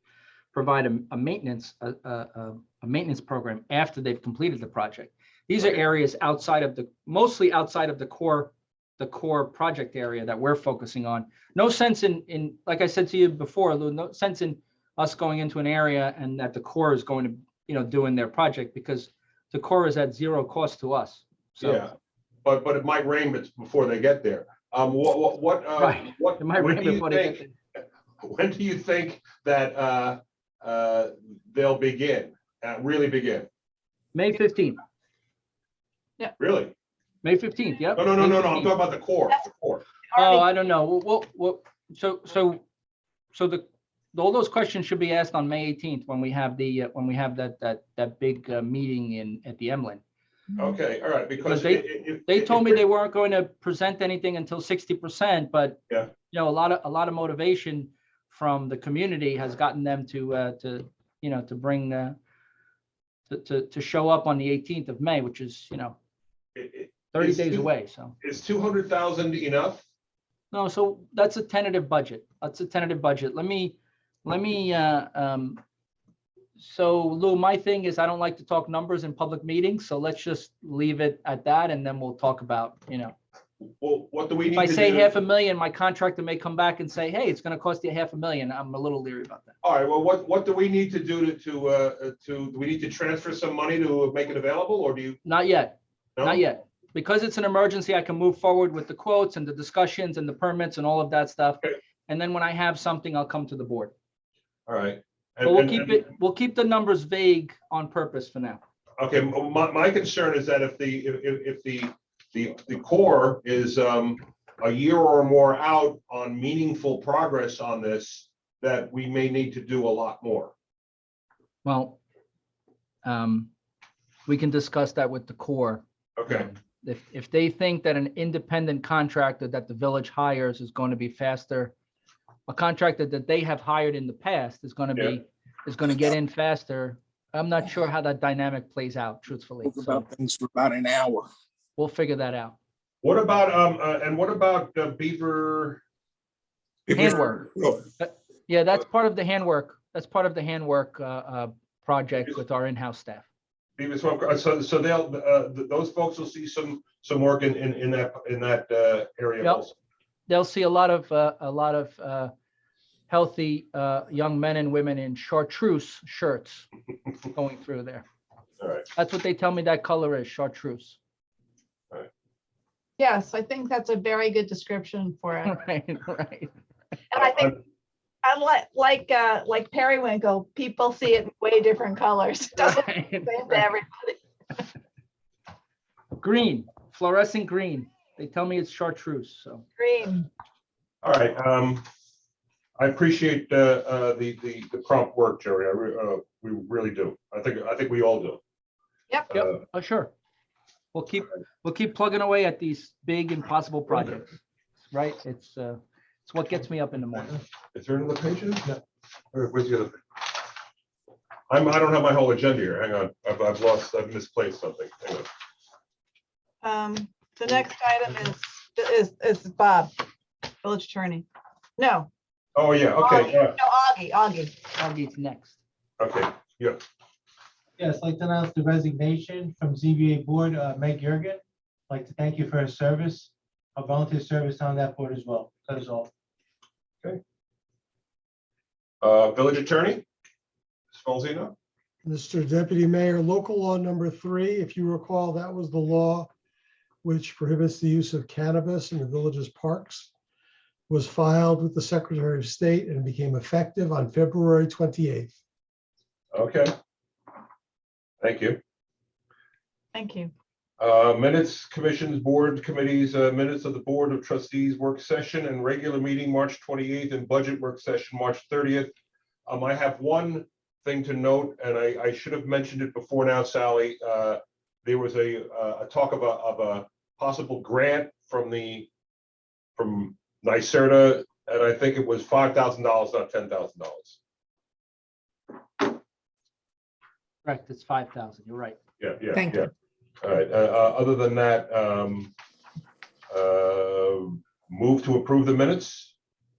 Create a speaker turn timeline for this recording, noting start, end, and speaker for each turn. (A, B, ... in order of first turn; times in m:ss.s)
0:00.5-0:21.8 A
0:21.6-0:21.9 B
0:22.4-0:33.5 B
0:25.8-0:27.5 A
0:34.1-0:34.8 A
0:36.4-0:36.7 B
0:37.2-0:38.7 A
0:38.0-0:39.8 B
0:40.2-0:42.6 A
0:43.3-0:50.0 A
0:50.6-0:52.8 B
0:51.4-1:02.2 A
1:03.3-1:06.0 A
1:06.6-1:07.7 B
1:07.1-1:08.2 A
1:08.2-1:09.8 B
1:10.5-1:15.6 A
1:16.6-1:23.2 A
1:23.8-1:25.1 B
1:24.5-1:29.5 A
1:29.6-1:35.2 B
1:35.2-1:43.9 A
1:36.2-1:36.4 B
1:44.7-1:46.0 B
1:45.4-1:48.6 A
1:49.0-2:00.5 B
2:01.6-2:02.0 A
2:03.0-2:03.5 A
2:04.3-2:11.7 A
2:06.2-2:06.5 B
2:12.5-2:20.0 A
2:19.6-2:21.3 C
2:21.8-2:22.6 A
2:23.0-2:25.8 B
2:26.9-2:27.8 C
2:26.9-2:33.3 A
2:33.8-2:39.8 B
2:40.3-2:42.3 A
2:43.1-2:46.7 A
2:47.3-2:48.0 A
2:48.6-2:48.9 B
2:49.0-2:51.0 A
2:53.0-2:55.5 D
2:55.4-2:56.5 A
2:57.1-2:57.5 D
2:58.2-3:04.2 D
3:02.6-3:03.7 A
3:06.2-3:09.6 A
3:09.8-3:10.2 D
3:11.0-3:11.8 B
3:12.8-3:18.4 B
3:19.3-3:20.1 A
3:20.9-3:24.4 A
3:24.9-3:27.4 A
3:27.7-3:28.8 B
3:29.3-3:30.2 B
3:31.5-3:35.3 B
3:36.6-3:39.9 D
3:40.6-3:41.3 D
3:41.8-3:42.1 D
3:42.6-3:43.6 B
3:43.0-3:44.4 D
3:44.8-3:45.6 A
3:46.0-3:46.8 B
3:47.9-3:51.2 E
3:51.9-3:56.1 E
3:59.0-4:00.1 B
4:00.9-4:01.5 B
4:02.0-4:06.3 F
4:07.0-4:10.1 F
4:10.9-4:15.4 F
4:16.3-4:16.7 B
4:18.2-4:18.6 B
4:19.9-4:20.3 D
4:20.8-4:28.9 B
4:29.5-4:38.9 B
4:39.8-4:44.2 B
4:47.4-4:48.8 A
4:49.0-4:49.7 B
4:50.2-4:52.3 B
4:53.3-4:56.1 B